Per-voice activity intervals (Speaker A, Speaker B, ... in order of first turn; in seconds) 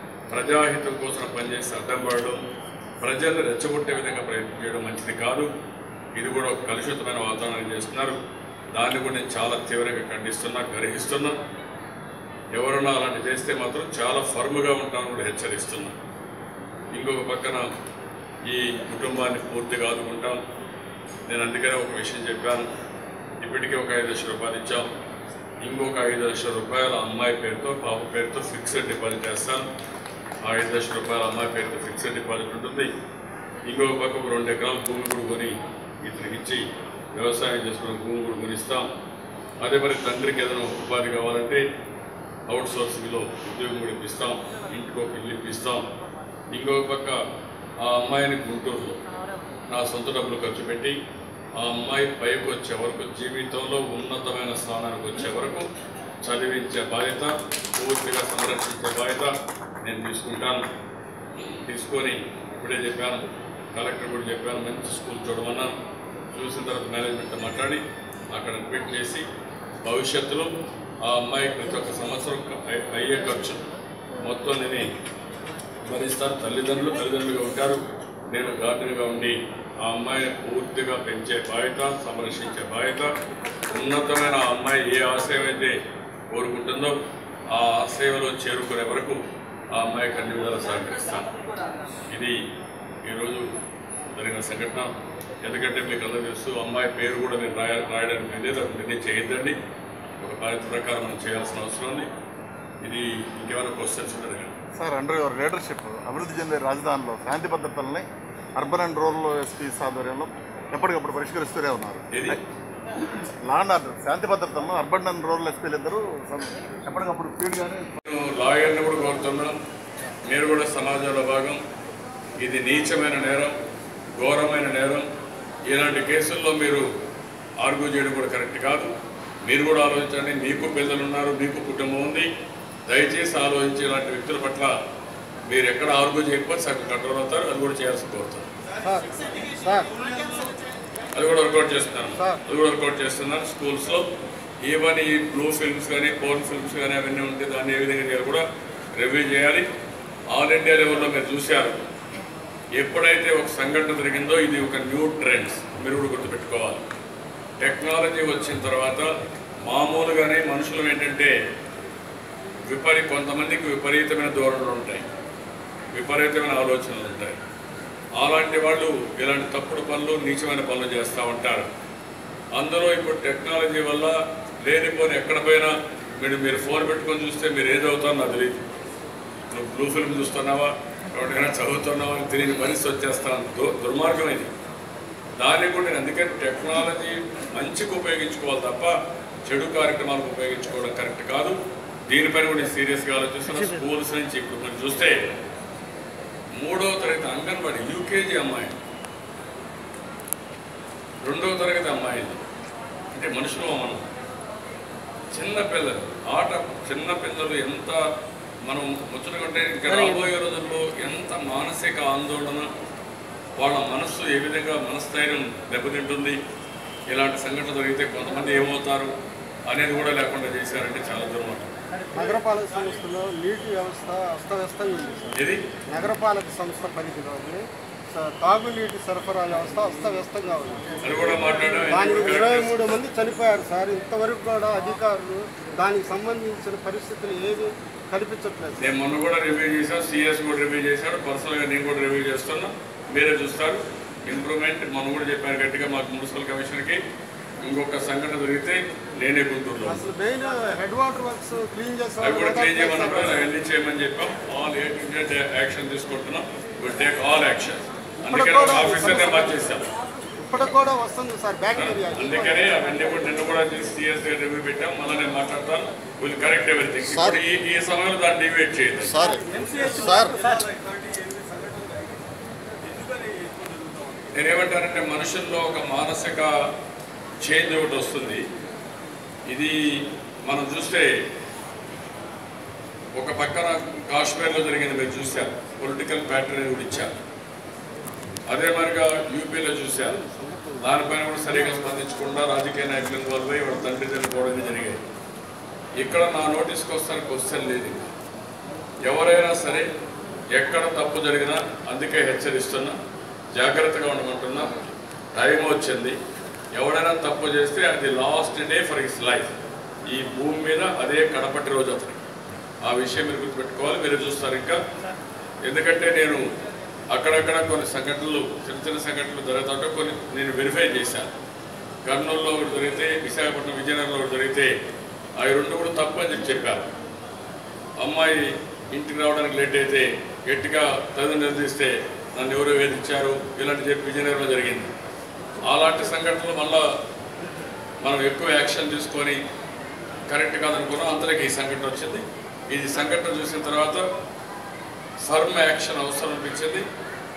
Speaker A: 0.3-2.4, 3.0-5.5, 6.2-8.2, 8.7-11.3, 12.5-15.9, 16.9-17.6, 18.5-20.4, 21.3-22.7, 23.4-24.9, 25.6-29.6, 30.4-32.9, 33.7-38.9, 39.6-41.6, 42.5-45.8, 46.5-47.2, 47.8-49.0, 49.7-50.9, 51.6-55.6, 56.2-60.6, 61.6-65.7, 66.3-69.2, 69.8-70.5, 71.0-73.6, 74.2-74.9, 75.8-83.1, 83.7-85.8, 86.3-87.0, 87.5-89.2, 89.7-91.3, 93.0-93.5, 94.1-94.9, 95.4-99.6, 100.2-102.1, 102.8-104.5, 112.1-112.4, 118.0-119.5, 120.2-121.6, 122.4-123.5, 124.2-125.0, 125.7-126.9, 127.6-128.9, 129.4-132.3, 132.9-134.7, 135.5-138.5, 141.1-144.1, 144.6-148.4, 148.9-149.7, 150.3-151.8, 152.8-156.8, 157.6-159.1, 159.6-161.3, 162.7-165.0, 165.9-167.4, 168.2-171.7, 172.5-178.6, 179.5-184.5, 185.4-188.9, 189.4-191.6, 192.1-195.2, 196.6-198.8, 201.2-202.4, 203.1-204.0, 205.3-208.0, 208.7-212.7, 213.6-216.4, 217.1-219.1, 219.7-221.7, 225.3-225.7, 231.0-232.8, 238.8-247.0, 247.6-250.0, 252.2-259.9, 261.7-269.3, 274.3-276.5, 277.4-278.4, 279.5-281.1, 283.1-287.1, 288.5-290.2, 290.8-295.0, 296.0-298.0, 299.0-299.9, 300.5-303.0, 303.5-304.7, 305.3-306.2, 306.7-309.5, 310.1-312.2, 312.8-314.8, 315.6-316.4, 317.1-321.3, 322.0-324.7, 325.4-326.9, 328.0-334.9, 335.6-336.9, 338.0-339.4, 340.3-344.0, 345.2-346.8
Speaker B: 104.7-112.4, 113.4-117.9
Speaker C: 138.8-139.9, 222.1-225.3, 225.9-238.9, 249.8-253.4, 258.2-259.6, 260.4-262.9, 269.1-271.8, 273.6-273.9